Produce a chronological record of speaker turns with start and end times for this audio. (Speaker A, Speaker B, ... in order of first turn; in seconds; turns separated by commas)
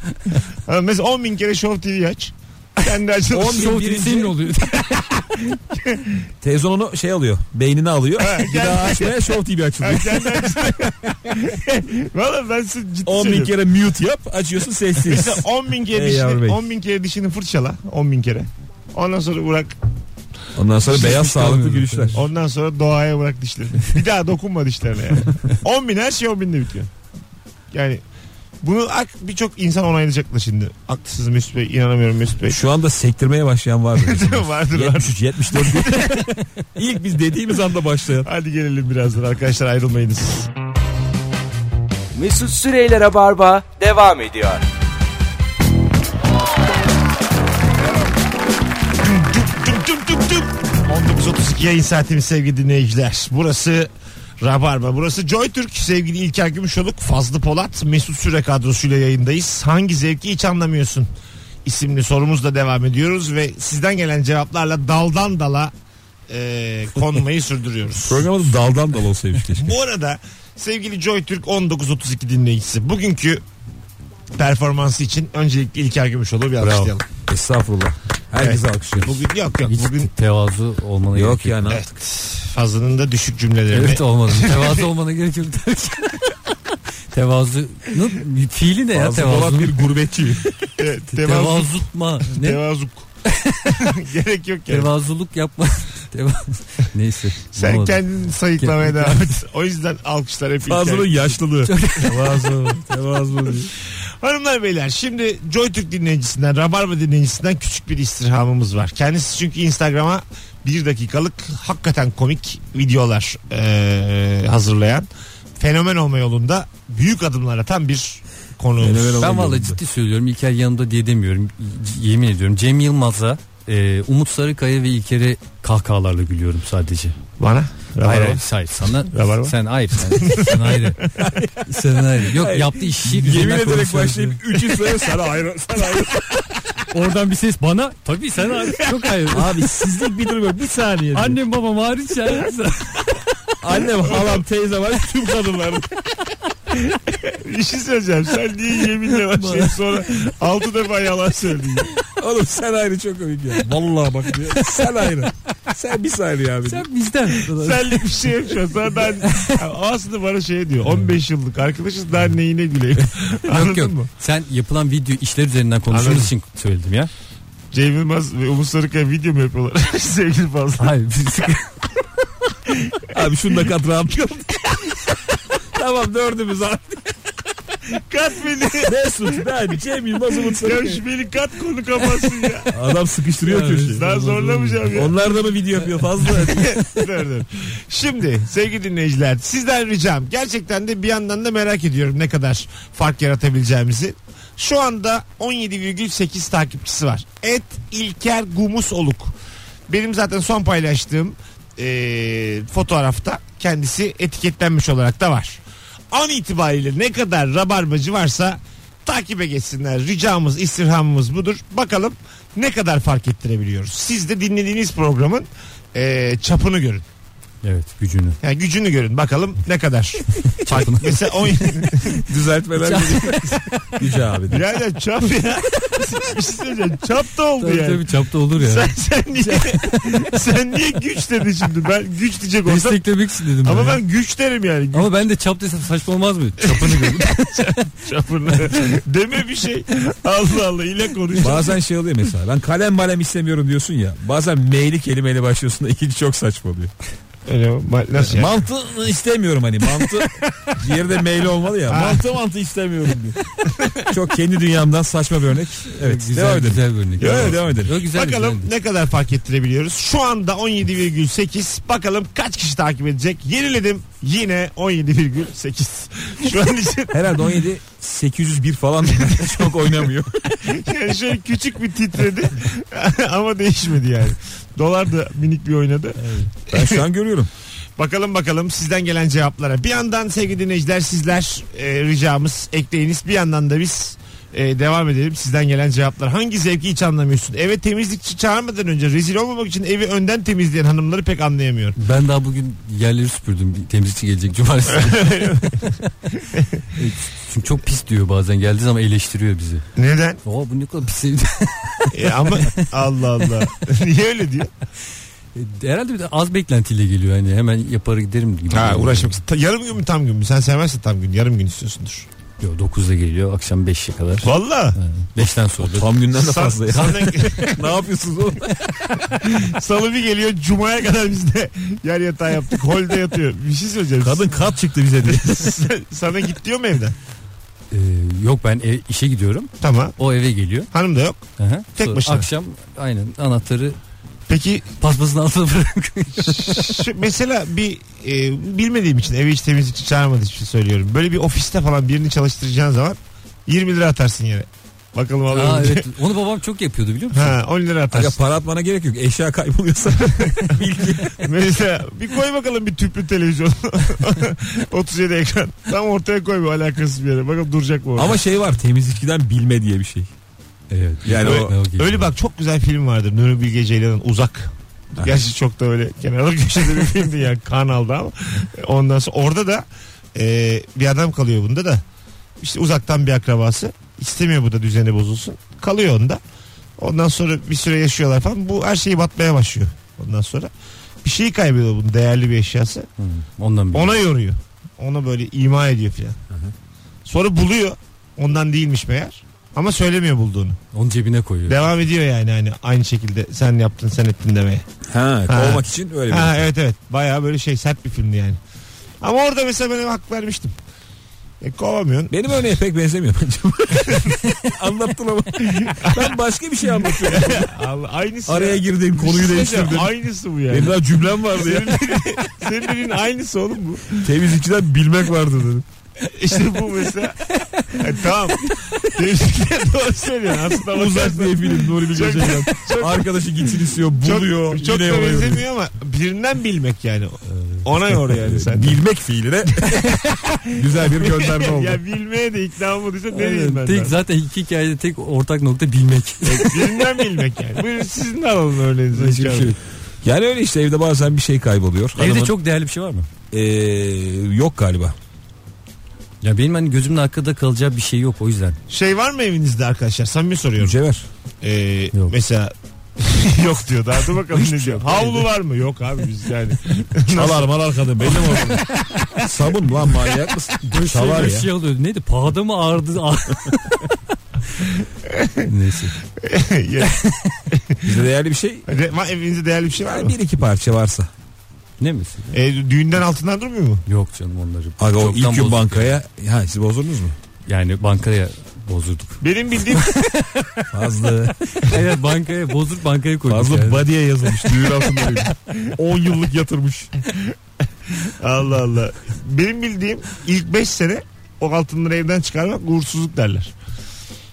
Speaker A: 0.3-3.8, Speaker B: 3.3-4.3, Speaker C: 3.3-4.8, Speaker A: 4.8-6.3, Speaker B: 6.4-10.5, Speaker A: 8.2-13.6, Speaker B: 13.1-16.6, Speaker A: 15.0-19.8, Speaker B: 20.6-22.2, Speaker C: 20.9-22.2, Speaker A: 22.1-26.9, Speaker A: 27.7-28.0, Speaker A: 28.6-32.6, Speaker B: 32.5-38.3, Speaker A: 34.0-36.4, Speaker A: 38.2-40.5, Speaker D: 42.1-44.6, Speaker A: 49.0-53.9, Speaker A: 54.4-61.1, Speaker A: 61.6-65.7, Speaker A: 66.3-68.3, Speaker B: 68.0-69.7, Speaker A: 69.5-73.4, Speaker A: 74.4-77.1, Speaker C: 76.6-76.9, Speaker B: 77.3-79.2, Speaker A: 78.4-80.1, Speaker C: 79.7-81.6, Speaker B: 81.1-81.9, Speaker A: 81.7-84.8, Speaker C: 83.7-86.4, Speaker C: 87.1-89.8, Speaker B: 88.9-90.7, Speaker A: 90.8-93.1, Speaker C: 91.1-92.6, Speaker C: 93.2-93.9, Speaker A: 93.7-94.9, Speaker C: 94.7-98.0, Speaker A: 97.5-101.4, Speaker C: 98.6-99.3, Speaker B: 100.7-103.7, Speaker C: 101.7-102.3, Speaker A: 104.2-115.1, Speaker A: 115.6-119.3, Speaker B: 118.8-119.8, Speaker C: 119.2-127.2, Speaker A: 127.4-131.2, Speaker C: 128.0-131.0, Speaker B: 130.0-130.6, Speaker B: 131.1-136.5, Speaker C: 131.6-134.4, Speaker C: 136.9-139.7, Speaker B: 139.3-141.4, Speaker C: 141.1-143.2, Speaker B: 143.6-145.9, Speaker A: 144.1-144.4, Speaker A: 146.8-151.9, Speaker C: 149.3-149.7, Speaker B: 152.1-156.9, Speaker C: 156.7-158.0, Speaker A: 157.4-164.1, Speaker C: 159.0-159.6, Speaker C: 163.4-167.1, Speaker A: 165.9-166.3, Speaker A: 167.7-170.9, Speaker C: 170.8-171.8, Speaker A: 172.7-173.0, Speaker B: 173.1-174.9, Speaker B: 175.7-177.0, Speaker A: 177.9-179.0, Speaker B: 178.8-181.0, Speaker A: 180.3-182.7, Speaker B: 182.7-184.0, Speaker C: 183.4-184.9, Speaker A: 183.9-185.1, Speaker B: 184.9-187.1, Speaker A: 186.2-199.3, Speaker A: 199.9-205.6, Speaker A: 206.1-217.0, Speaker C: 217.6-218.4, Speaker A: 218.4-222.3, Speaker C: 220.5-221.9, Speaker B: 222.2-224.6, Speaker C: 222.8-224.0, Speaker A: 224.5-233.0, Speaker C: 227.6-228.9, Speaker C: 229.5-230.1, Speaker C: 232.7-234.0, Speaker A: 233.6-235.1, Speaker C: 234.9-237.5, Speaker A: 236.6-241.8, Speaker B: 241.4-246.9, Speaker A: 247.5-248.5, Speaker B: 248.2-253.4, Speaker A: 250.2-250.8, Speaker A: 251.9-252.3, Speaker B: 254.1-257.9, Speaker C: 255.9-258.7, Speaker A: 257.2-267.3, Speaker B: 267.1-270.6, Speaker A: 269.2-269.5, Speaker A: 270.6-277.0, Speaker C: 276.2-276.5, Speaker B: 276.7-277.5, Speaker A: 278.0-292.0, Speaker C: 292.0-296.3, Speaker A: 294.9-295.9, Speaker A: 296.5-296.8, Speaker C: 296.9-299.8, Speaker A: 300.0-300.4, Speaker C: 300.4-302.9, Speaker A: 302.1-304.7, Speaker C: 305.6-309.4, Speaker A: 308.7-312.3, Speaker C: 312.6-316.1, Speaker A: 314.4-315.0, Speaker B: 315.4-319.2, Speaker A: 316.3-317.9, Speaker A: 319.2-324.6, Speaker B: 324.2-325.9, Speaker A: 325.2-327.2, Speaker C: 327.9-330.9, Speaker A: 329.8-330.1, Speaker A: 330.9-331.4, Speaker C: 331.6-334.0, Speaker A: 332.0-332.5, Speaker A: 334.5-334.9, Speaker C: 335.0-337.1, Speaker A: 336.4-346.1, Speaker C: 345.5-347.6, Speaker A: 347.3-348.4, Speaker B: 348.1-351.4, Speaker A: 350.3-350.7, Speaker A: 351.4-358.4, Speaker B: 358.2-360.3, Speaker C: 360.9-362.3, Speaker B: 361.2-361.7, Speaker A: 361.4-372.0, Speaker A: 372.6-376.4, Speaker A: 377.0-380.7, Speaker A: 381.2-383.1, Speaker C: 383.2-384.2, Speaker A: 383.9-386.4, Speaker A: 387.3-390.8, Speaker C: 390.9-391.9, Speaker A: 391.7-394.9, Speaker B: 395.1-396.7, Speaker A: 395.5-398.6, Speaker A: 399.2-400.7, Speaker A: 401.6-402.4, Speaker B: 402.3-407.7, Speaker A: 404.1-404.4, Speaker A: 405.6-406.4, Speaker A: 407.0-414.3, Speaker B: 408.5-410.1, Speaker B: 410.7-412.0, Speaker B: 414.2-415.9, Speaker A: 416.2-417.4, Speaker A: 417.9-423.3, Speaker B: 420.9-425.6, Speaker A: 424.2-429.0, Speaker B: 428.5-430.2, Speaker A: 430.4-434.2, Speaker B: 430.7-432.0, Speaker C: 433.3-436.9, Speaker A: 436.4-439.7, Speaker C: 439.1-439.8, Speaker B: 440.2-442.5, Speaker C: 442.2-443.3, Speaker B: 443.5-445.2, Speaker C: 446.4-448.8, Speaker A: 448.9-451.0, Speaker B: 450.8-451.3, Speaker A: 451.6-457.7, Speaker B: 454.6-455.4, Speaker C: 454.7-455.2, Speaker B: 457.3-461.7, Speaker C: 460.9-464.2, Speaker A: 465.3-465.7, Speaker C: 465.6-466.2, Speaker A: 466.4-467.2, Speaker C: 467.0-467.6, Speaker A: 467.7-468.1, Speaker B: 468.0-468.9, Speaker A: 468.9-470.4, Speaker B: 470.1-471.3, Speaker C: 472.0-472.6, Speaker A: 472.5-474.0, Speaker C: 474.1-476.2, Speaker B: 475.0-477.4, Speaker C: 477.7-480.8, Speaker A: 479.4-480.3, Speaker B: 480.9-481.9, Speaker C: 481.8-484.1, Speaker B: 483.5-487.1, Speaker A: 488.1-493.7